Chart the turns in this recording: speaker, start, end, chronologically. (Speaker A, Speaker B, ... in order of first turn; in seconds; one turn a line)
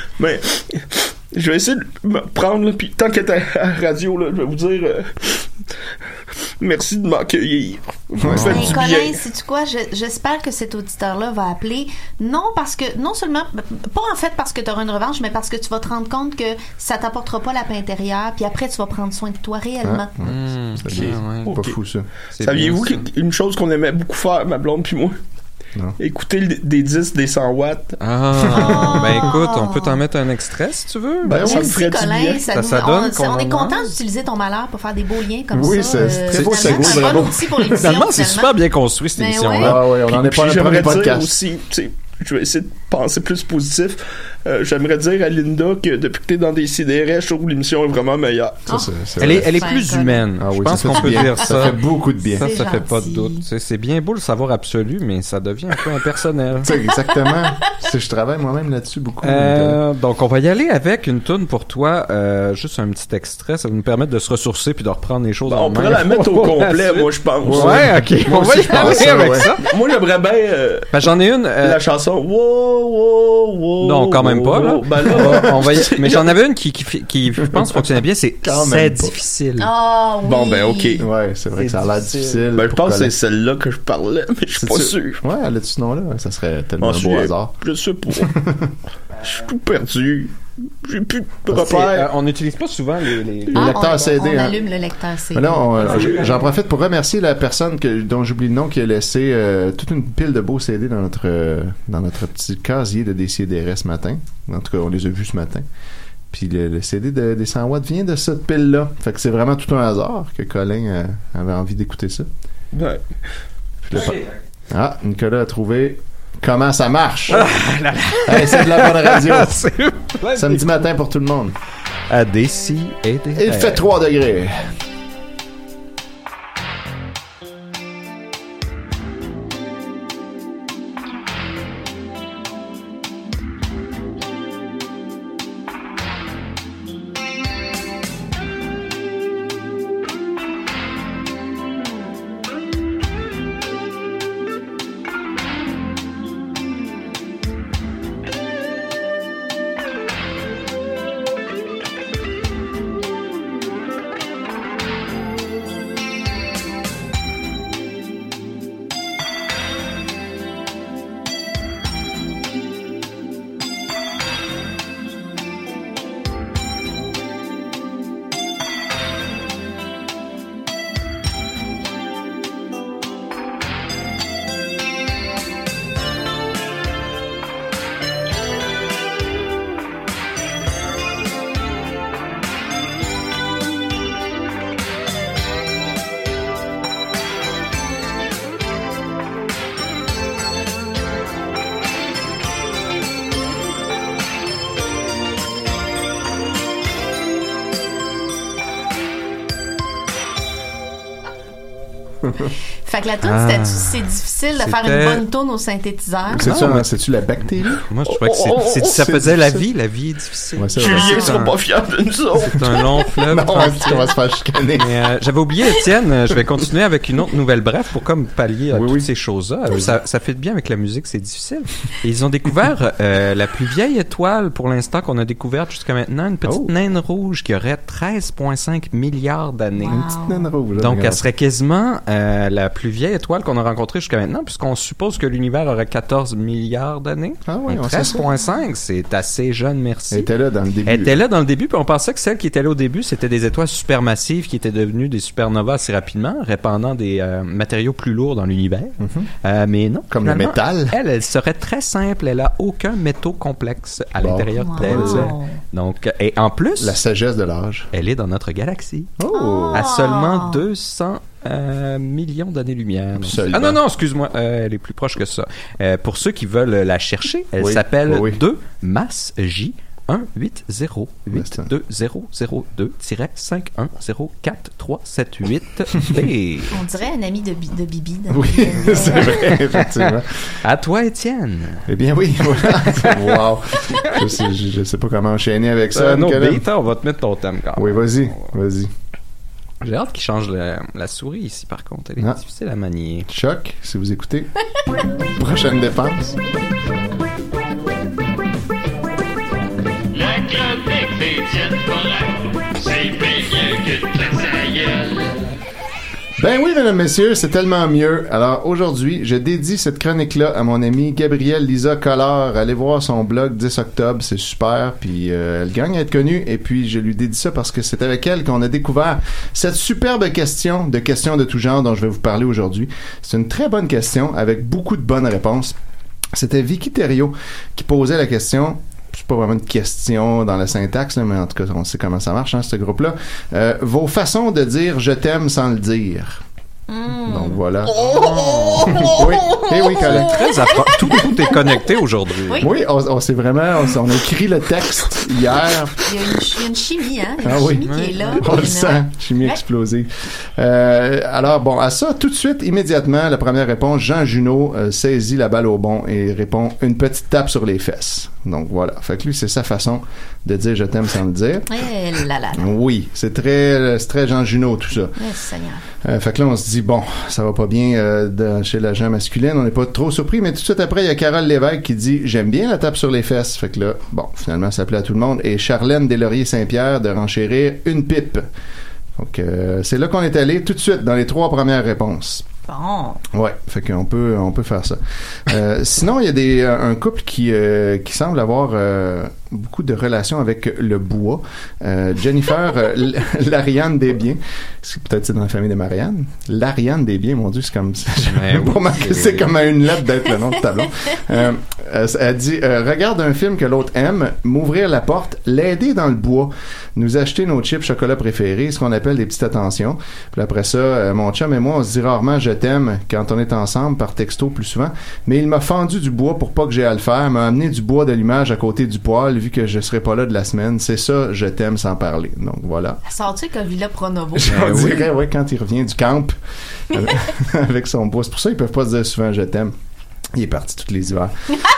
Speaker A: 0.2-5.5
Speaker A: 6.6-9.2
Speaker B: 8.2-8.8
Speaker C: 8.3-8.7
Speaker D: 8.4-20.1
Speaker B: 19.8-22.1
Speaker C: 20.2-21.6
Speaker C: 22.3-23.0
Speaker A: 22.4-25.1
Speaker A: 26.0-28.0
Speaker C: 28.0-31.6
Speaker B: 28.6-29.0
Speaker D: 28.6-30.0
Speaker A: 31.2-32.5
Speaker B: 31.3-31.7
Speaker D: 31.4-38.5
Speaker C: 32.5-33.9
Speaker B: 35.5-37.7
Speaker C: 36.3-39.8
Speaker D: 39.2-39.7
Speaker B: 39.6-41.3
Speaker A: 40.1-48.6
Speaker B: 48.7-49.6
Speaker C: 49.2-51.8
Speaker D: 49.5-50.2
Speaker B: 50.4-52.5
Speaker D: 50.9-51.6
Speaker C: 52.3-56.7
Speaker D: 52.4-53.4
Speaker B: 56.6-59.8
Speaker C: 59.2-69.7
Speaker A: 65.5-67.9
Speaker B: 67.4-69.5
Speaker A: 68.7-69.0
Speaker A: 69.6-70.9
Speaker C: 70.9-71.8
Speaker A: 71.6-76.4
Speaker C: 73.8-79.7
Speaker B: 78.4-79.1
Speaker D: 79.6-81.0
Speaker A: 80.2-81.0
Speaker B: 81.0-83.1
Speaker C: 81.6-82.4
Speaker A: 82.5-85.2
Speaker B: 84.6-87.5
Speaker A: 86.8-88.3
Speaker B: 88.2-88.7
Speaker A: 89.2-92.1
Speaker C: 91.5-93.8
Speaker B: 93.5-94.6
Speaker D: 93.5-96.0
Speaker B: 95.3-105.6
Speaker C: 95.9-96.3
Speaker B: 106.3-112.3
Speaker A: 112.7-113.0
Speaker B: 113.8-114.2
Speaker C: 113.9-114.3
Speaker B: 114.7-117.5
Speaker C: 117.3-120.7
Speaker B: 118.2-119.6
Speaker B: 120.3-121.5
Speaker C: 122.1-123.8
Speaker B: 123.3-124.7
Speaker D: 202.8-206.5
Speaker C: 203.2-205.2
Speaker B: 206.3-207.8
Speaker C: 206.4-206.9
Speaker C: 207.9-211.6
Speaker A: 208.1-209.0
Speaker B: 209.0-209.6
Speaker B: 210.6-211.2
Speaker A: 210.8-212.7
Speaker D: 210.8-211.4
Speaker C: 212.4-214.1
Speaker B: 213.3-214.9
Speaker C: 214.7-230.0
Speaker B: 218.7-219.1
Speaker B: 219.7-219.9
Speaker B: 226.4-226.7
Speaker D: 229.8-230.5
Speaker B: 229.8-231.2
Speaker C: 230.8-240.3
Speaker B: 237.5-238.2
Speaker B: 240.1-241.2
Speaker C: 240.8-257.0
Speaker B: 249.0-249.3
Speaker B: 250.1-250.9
Speaker B: 254.2-255.3
Speaker D: 254.6-255.6
Speaker B: 256.8-257.9
Speaker C: 257.9-259.1
Speaker B: 259.2-259.9
Speaker D: 259.3-260.6
Speaker C: 259.7-276.8
Speaker B: 263.2-263.8
Speaker B: 267.6-268.4
Speaker B: 271.3-271.7
Speaker D: 276.7-279.4
Speaker B: 278.3-280.3
Speaker C: 279.2-281.9
Speaker B: 281.9-286.6
Speaker C: 282.6-283.4
Speaker C: 285.9-288.5
Speaker B: 287.8-288.9
Speaker C: 289.8-293.3
Speaker B: 293.3-294.5
Speaker B: 295.4-296.4
Speaker E: 300.1-305.3
Speaker B: 306.4-325.8
Speaker B: 326.3-336.4
Speaker D: 336.9-337.6
Speaker B: 337.2-337.9
Speaker A: 337.9-339.7
Speaker C: 338.0-339.2
Speaker B: 339.0-340.4
Speaker C: 340.0-342.7
Speaker B: 342.6-346.1
Speaker D: 346.0-349.6
Speaker B: 347.4-361.7
Speaker C: 347.8-348.5
Speaker D: 361.7-362.7
Speaker B: 362.5-365.1
Speaker D: 365.2-365.8
Speaker B: 366.0-378.4
Speaker B: 379.1-382.4
Speaker D: 382.7-383.2
Speaker B: 383.3-423.0
Speaker C: 398.2-399.5
Speaker D: 423.1-424.7
Speaker B: 424.4-426.4
Speaker C: 424.5-425.1
Speaker B: 426.9-429.7
Speaker B: 430.3-431.3